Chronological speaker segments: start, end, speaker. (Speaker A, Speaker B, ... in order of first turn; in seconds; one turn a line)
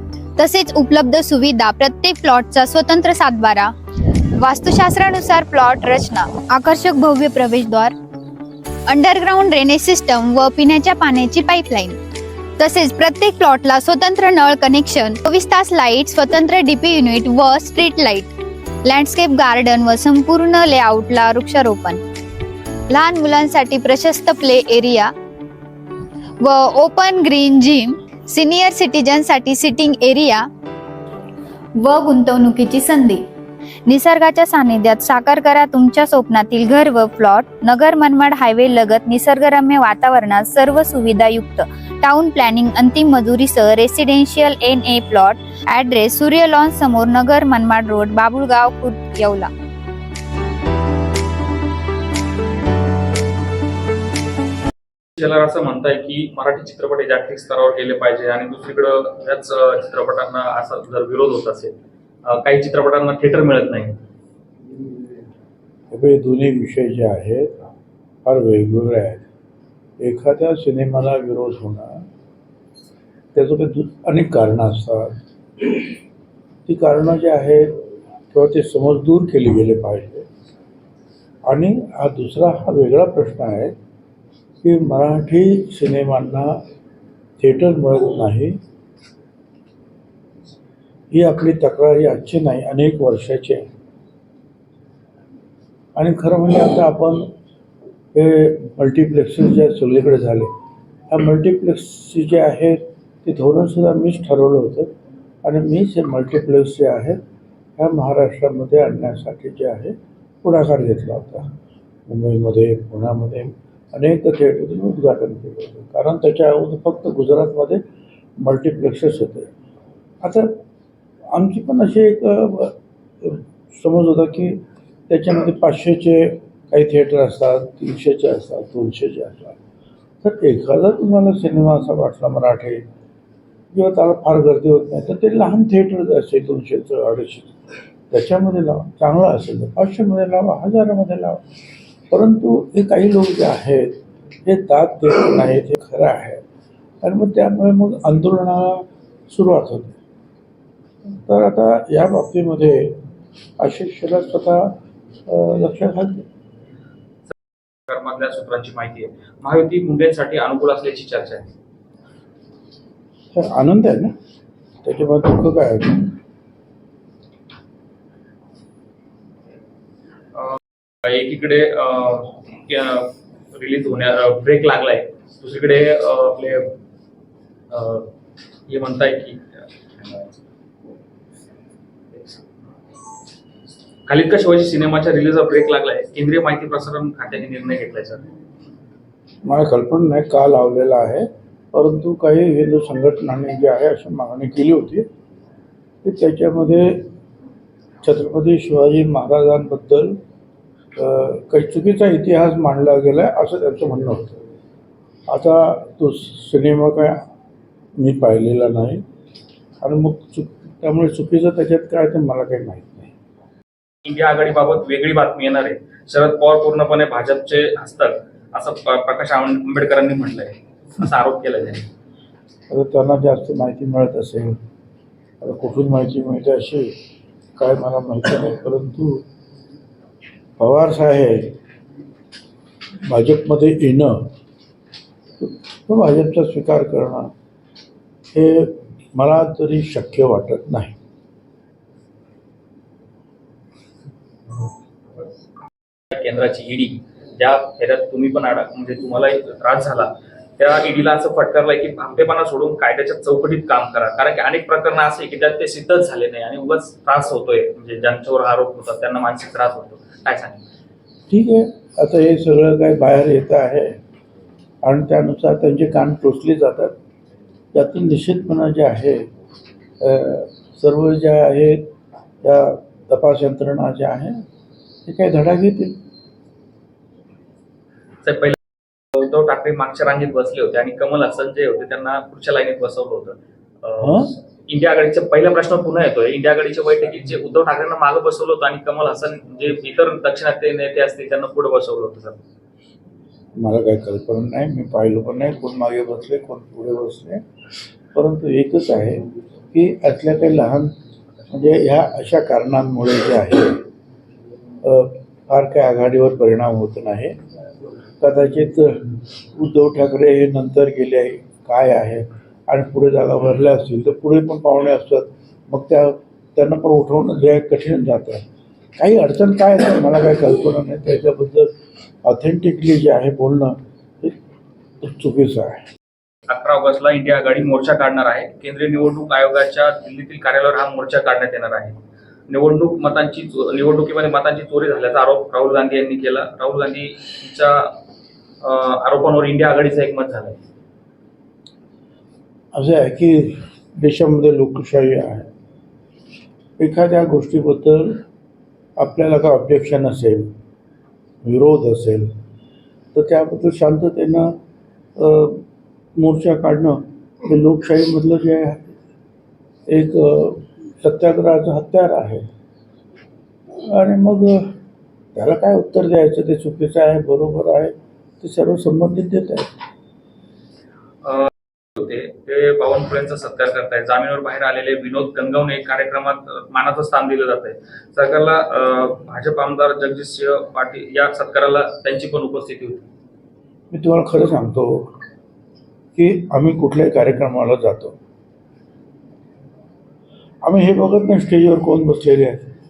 Speaker A: 0.4-3.7
Speaker A: 4.4-7.9
Speaker A: 8.9-12.0
Speaker A: 12.6-18.3
Speaker A: 18.8-22.0
Speaker A: 22.9-25.1
Speaker A: 26.4-30.5
Speaker A: 31.8-33.2
Speaker A: 33.9-49.5
Speaker B: 55.2-64.0
Speaker C: 65.9-67.5
Speaker C: 68.2-69.2
Speaker C: 70.0-72.0
Speaker C: 73.3-75.8
Speaker C: 76.7-77.7
Speaker C: 78.3-80.2
Speaker C: 81.4-83.7
Speaker C: 84.6-86.6
Speaker C: 87.4-88.6
Speaker C: 91.1-93.7
Speaker C: 96.0-97.2
Speaker C: 98.1-100.5
Speaker C: 101.1-104.9
Speaker C: 105.4-107.2
Speaker C: 107.8-111.5
Speaker C: 112.1-117.8
Speaker C: 118.4-119.5
Speaker C: 120.2-120.5
Speaker C: 121.3-129.6
Speaker C: 130.2-132.8
Speaker C: 133.7-137.5
Speaker C: 138.1-141.4
Speaker C: 142.1-143.9
Speaker C: 144.4-146.4
Speaker C: 147.0-150.0
Speaker C: 151.1-153.0
Speaker C: 153.6-154.7
Speaker C: 155.3-156.2
Speaker B: 157.9-161.5
Speaker C: 163.3-164.1
Speaker C: 164.8-166.1
Speaker B: 170.3-176.8
Speaker B: 177.7-178.1
Speaker B: 178.7-179.5
Speaker B: 180.0-180.3
Speaker B: 182.1-182.4
Speaker B: 184.1-188.2
Speaker C: 189.4-195.1
Speaker C: 196.0-197.1
Speaker C: 198.0-200.2
Speaker C: 200.9-204.3
Speaker C: 205.3-207.2
Speaker C: 208.0-209.0
Speaker C: 209.8-213.1
Speaker B: 214.0-221.9
Speaker C: 222.7-224.6
Speaker C: 225.4-226.9
Speaker C: 227.6-229.2
Speaker C: 230.6-231.5
Speaker C: 233.1-234.3
Speaker C: 235.4-237.3
Speaker C: 238.3-240.9
Speaker B: 246.1-260.6
Speaker C: 261.3-263.9
Speaker C: 264.8-266.9
Speaker C: 267.7-269.2
Speaker C: 270.0-271.9
Speaker C: 272.4-274.4
Speaker C: 275.1-276.0
Speaker B: 278.2-278.6
Speaker B: 279.1-292.4
Speaker C: 284.0-284.3
Speaker C: 293.6-297.4
Speaker C: 298.1-300.9
Speaker C: 301.5-303.8
Speaker C: 304.8-307.3
Speaker C: 308.2-318.4
Speaker C: 319.0-321.7
Speaker C: 322.2-324.4
Speaker C: 325.0-325.8
Speaker B: 326.5-332.0
Speaker B: 332.5-337.9
Speaker B: 338.6-340.6
Speaker C: 342.7-345.5
Speaker C: 346.8-348.2
Speaker C: 349.0-350.5
Speaker C: 351.4-352.3
Speaker C: 353.1-354.5
Speaker C: 355.2-355.6
Speaker C: 356.2-358.9
Speaker C: 359.9-362.4
Speaker C: 363.8-364.7
Speaker C: 365.3-369.7
Speaker B: 371.2-383.0
Speaker C: 383.9-385.1
Speaker C: 386.1-388.2
Speaker C: 390.6-392.7